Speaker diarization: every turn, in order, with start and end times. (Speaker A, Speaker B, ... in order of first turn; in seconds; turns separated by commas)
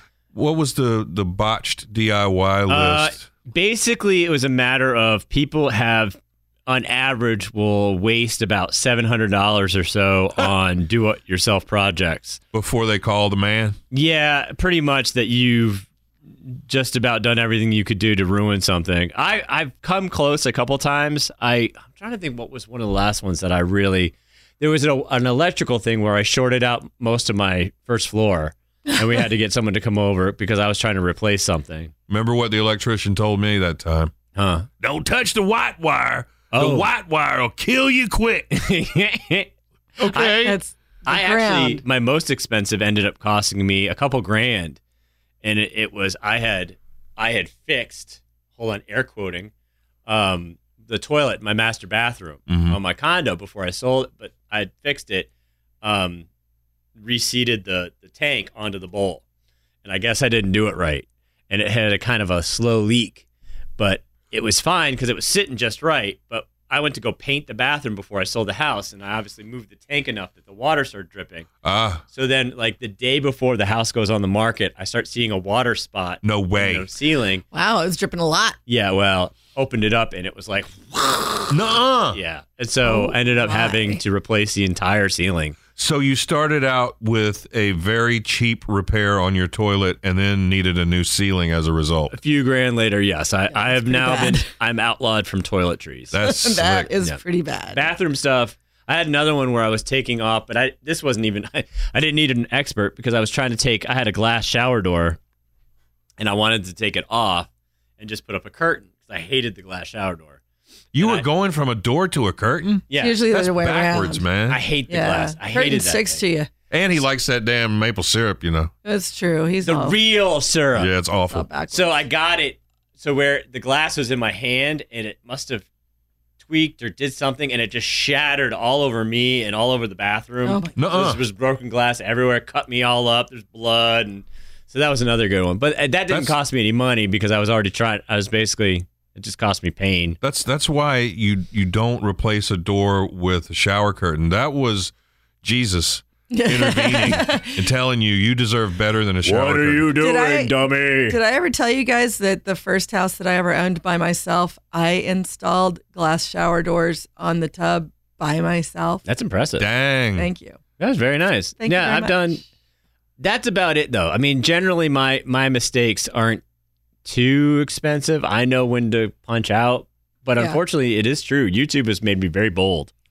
Speaker A: 0.3-3.2, Speaker B: 2.7-12.4, Speaker A: 12.5-13.8, Speaker B: 13.9-15.9, Speaker B: 16.5-31.9, Speaker A: 32.1-34.1, Speaker B: 34.4-34.7, Speaker A: 34.8-38.6, Speaker B: 36.5-36.9, Speaker B: 38.5-39.5, Speaker A: 40.0-40.6, Speaker B: 40.1-40.4, Speaker C: 40.4-41.8, Speaker B: 41.0-44.8, Speaker B: 45.4-49.5, Speaker B: 50.1-55.3, Speaker A: 52.5-52.8, Speaker B: 55.8-56.3, Speaker B: 57.0-59.2, Speaker B: 59.8-63.2, Speaker B: 63.8-71.5, Speaker A: 71.6-72.0, Speaker B: 72.1-77.4, Speaker A: 76.2-76.9, Speaker C: 77.5-78.6, Speaker B: 78.7-81.5, Speaker A: 81.5-82.2, Speaker B: 82.1-85.6, Speaker C: 82.8-84.0, Speaker A: 85.8-92.1, Speaker B: 92.1-96.1, Speaker C: 93.5-94.5, Speaker A: 96.1-96.9, Speaker C: 96.2-97.8, Speaker B: 97.7-105.2, Speaker B: 106.2-107.5, Speaker B: 108.0-110.4, Speaker A: 110.9-114.6, Speaker B: 111.0-111.2, Speaker B: 112.9-113.2, Speaker C: 113.0-114.3, Speaker B: 114.5-116.2, Speaker C: 114.9-116.5, Speaker A: 116.7-118.7, Speaker C: 118.8-120.0, Speaker B: 119.6-120.9, Speaker A: 120.7-121.5, Speaker C: 121.3-122.0, Speaker B: 121.7-125.7, Speaker B: 126.4-140.2, Speaker C: 130.4-130.8, Speaker A: 130.8-131.2, Speaker A: 136.1-136.3, Speaker A: 140.2-149.9, Speaker C: 146.3-147.6, Speaker B: 149.2-151.2, Speaker C: 150.0-159.0, Speaker B: 159.0-159.7, Speaker A: 159.6-160.3, Speaker C: 160.2-160.6, Speaker B: 160.8-162.4, Speaker C: 161.6-162.4, Speaker B: 163.2-166.4, Speaker B: 167.0-172.9